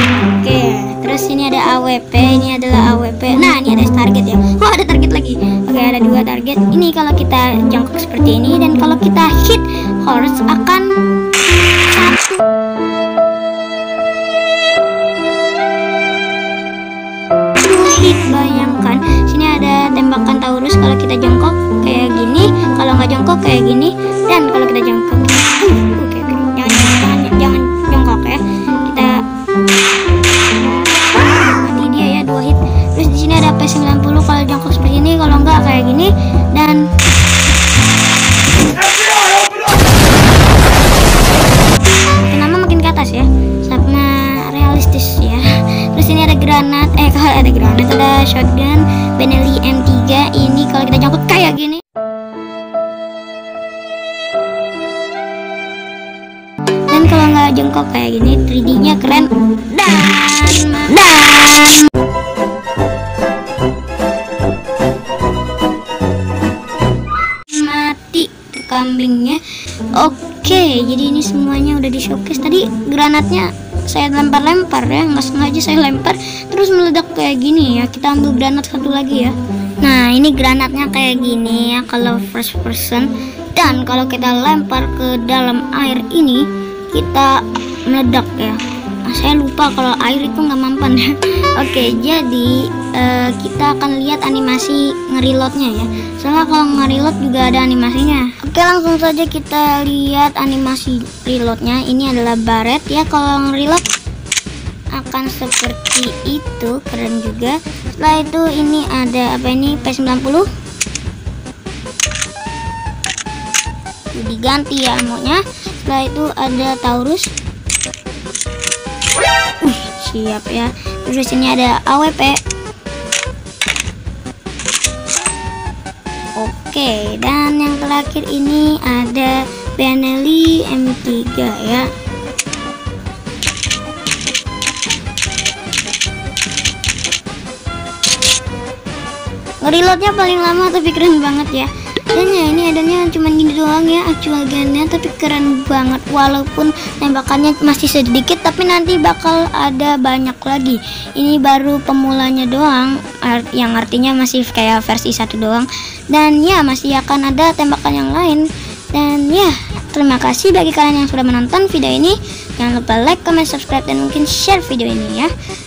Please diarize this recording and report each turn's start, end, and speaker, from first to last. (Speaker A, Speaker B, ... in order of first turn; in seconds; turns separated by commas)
Speaker A: 0.4-10.9, Speaker A: 11.9-12.3, Speaker A: 17.6-29.2, Speaker A: 30.8-36.9, Speaker A: 42.2-51.8, Speaker A: 56.9-61.9, Speaker A: 67.5-69.4, Speaker A: 69.9-103.8, Speaker A: 104.9-110.5, Speaker A: 114.1-117.3, Speaker A: 119.6-122.4, Speaker A: 126.4-131.9, Speaker A: 139.6-165.3